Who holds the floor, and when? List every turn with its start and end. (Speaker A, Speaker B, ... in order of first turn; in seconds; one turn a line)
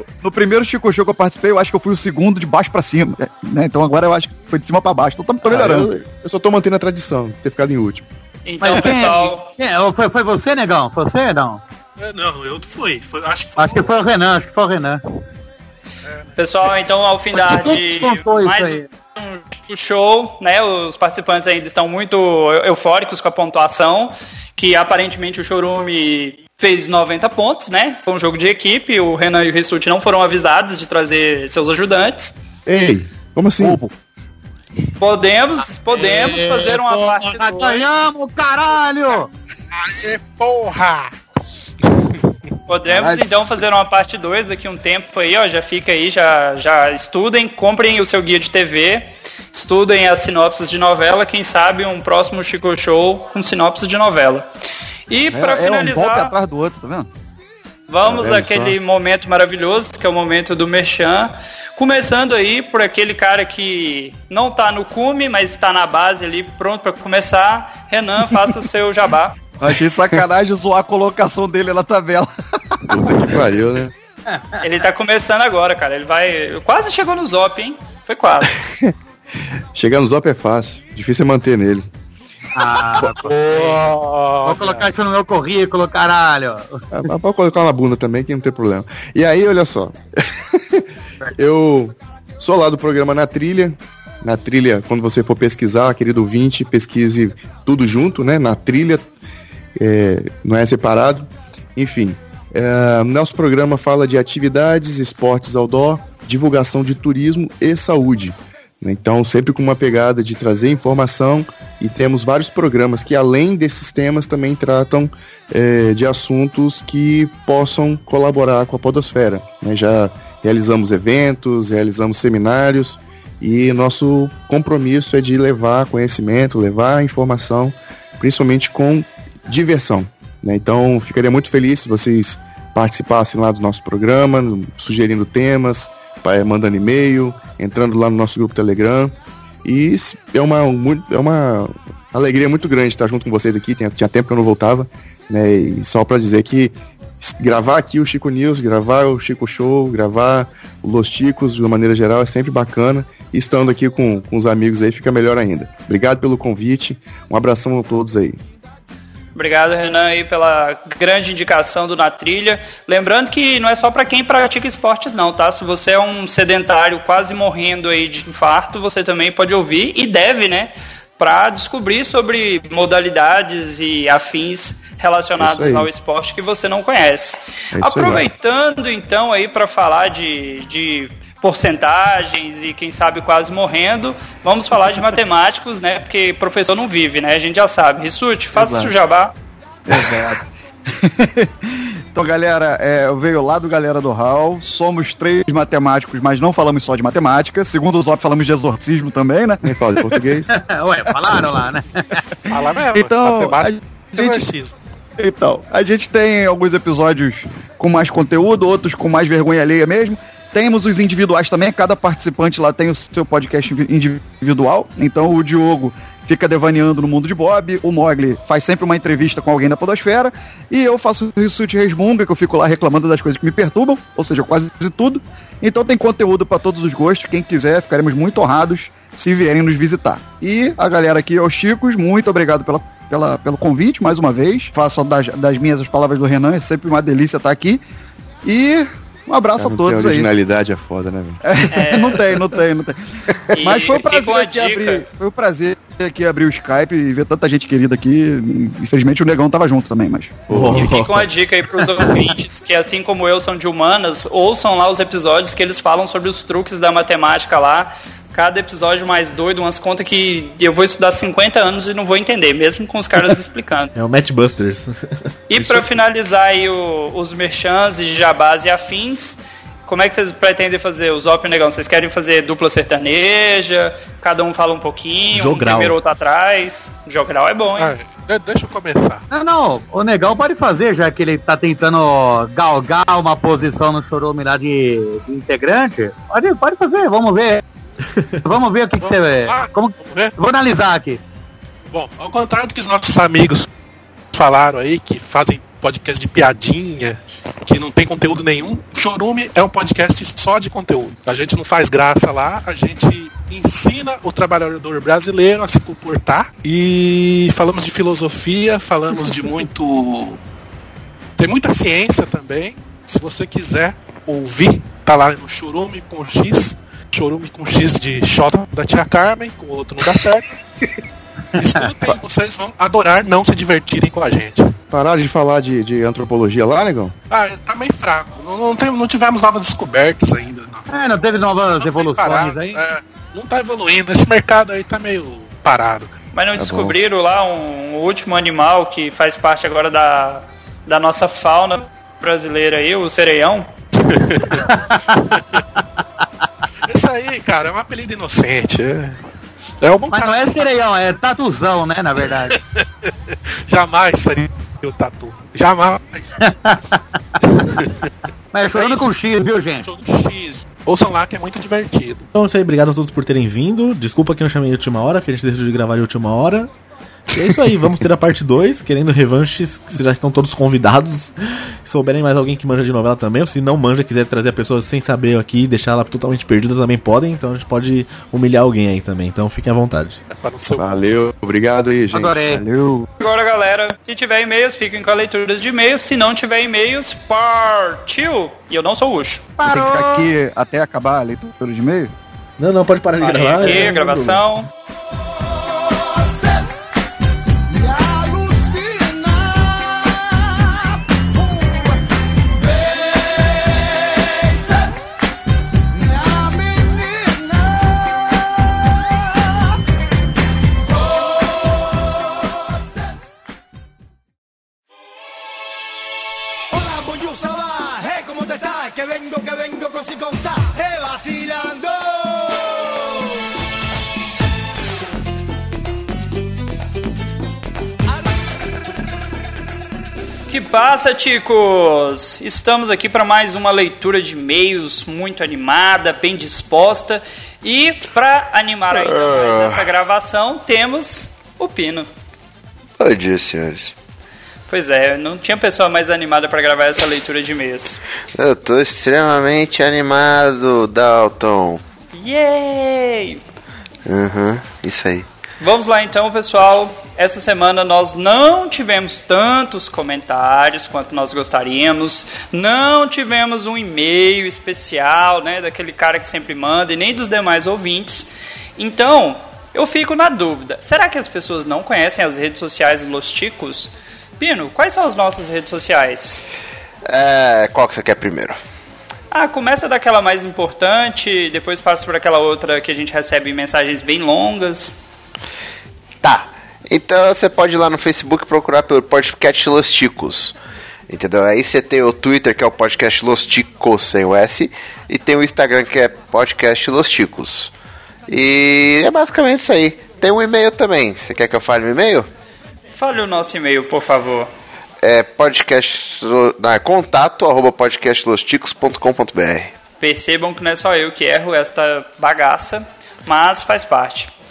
Speaker A: 0.2-5.9
Speaker B: 5.4-8.1
Speaker C: 8.5-9.5
Speaker D: 8.6-11.6
Speaker E: 12.0-13.9
Speaker D: 13.6-15.0
Speaker E: 16.1-16.4
Speaker C: 16.4-32.3
Speaker D: 17.3-18.9
Speaker B: 32.7-33.8
Speaker A: 33.6-33.9
Speaker C: 35.0-37.8
Speaker D: 35.9-39.3
Speaker E: 39.7-41.1
Speaker E: 41.8-42.2
Speaker C: 42.7-54.5
Speaker A: 42.9-43.5
Speaker C: 55.1-56.3
Speaker A: 55.3-57.1
Speaker C: 57.9-69.3
Speaker B: 58.0-58.8
Speaker A: 69.6-73.3
Speaker B: 72.9-73.9
Speaker D: 74.3-74.6
Speaker C: 74.6-78.6
Speaker B: 79.7-81.9
Speaker D: 82.5-83.9
Speaker B: 83.0-83.3
Speaker E: 83.1-84.9
Speaker D: 84.4-86.8
Speaker B: 86.9-99.1
Speaker B: 99.8-158.4
Speaker C: 159.3-189.3
Speaker B: 175.4-175.9
Speaker B: 177.7-178.3
Speaker A: 189.9-199.6
Speaker B: 199.6-200.6
Speaker D: 200.5-202.2
Speaker E: 202.5-204.8
Speaker A: 202.9-204.5
Speaker A: 205.2-237.8
Speaker A: 238.4-240.3
Speaker B: 239.6-241.4
Speaker A: 241.4-250.5
Speaker C: 241.7-242.3
Speaker C: 243.5-245.1
Speaker B: 250.5-250.9
Speaker F: 250.5-251.3
Speaker C: 250.8-263.9
Speaker F: 263.9-264.9
Speaker C: 265.5-277.9
Speaker F: 265.5-265.9
Speaker F: 275.3-276.0
Speaker E: 277.8-279.2
Speaker D: 279.3-287.6
Speaker D: 288.4-291.2
Speaker E: 289.0-290.3
Speaker E: 291.9-293.7
Speaker E: 294.3-310.4
Speaker E: 311.4-320.5
Speaker E: 321.6-324.7
Speaker D: 321.6-321.9
Speaker B: 324.9-327.1
Speaker E: 327.3-336.1
Speaker D: 330.9-332.8
Speaker C: 336.3-343.7
Speaker B: 336.6-337.0
Speaker E: 344.0-344.7
Speaker D: 344.7-345.2
Speaker E: 345.3-345.6
Speaker E: 346.9-349.2
Speaker E: 349.8-350.7
Speaker D: 350.1-352.6
Speaker E: 352.5-356.4
Speaker D: 356.4-357.0
Speaker E: 357.4-358.1
Speaker D: 358.5-359.9
Speaker E: 358.7-359.1
Speaker E: 359.8-362.3
Speaker F: 362.4-366.7
Speaker F: 367.3-371.3
Speaker F: 371.9-380.2
Speaker E: 380.3-381.1
Speaker B: 380.8-382.6
Speaker D: 382.1-382.6
Speaker A: 382.5-383.1
Speaker C: 383.2-389.5
Speaker D: 389.6-390.3
Speaker A: 389.6-392.1
Speaker F: 392.6-394.5
Speaker C: 393.2-394.7
Speaker G: 395.4-396.7
Speaker G: 397.7-404.9
Speaker G: 405.9-409.8
Speaker G: 410.8-413.1
Speaker G: 416.7-423.4
Speaker C: 430.5-442.1
Speaker H: 438.9-439.8
Speaker H: 443.0-443.9
Speaker C: 444.7-448.0
Speaker H: 448.4-451.8
Speaker C: 452.1-453.4
Speaker H: 454.1-455.3
Speaker C: 455.6-476.4
Speaker H: 477.1-478.6
Speaker C: 479.3-484.9
Speaker H: 486.2-490.6
Speaker H: 491.1-497.7
Speaker H: 498.3-502.3
Speaker C: 502.9-504.5
Speaker H: 505.0-509.7
Speaker C: 510.0-514.3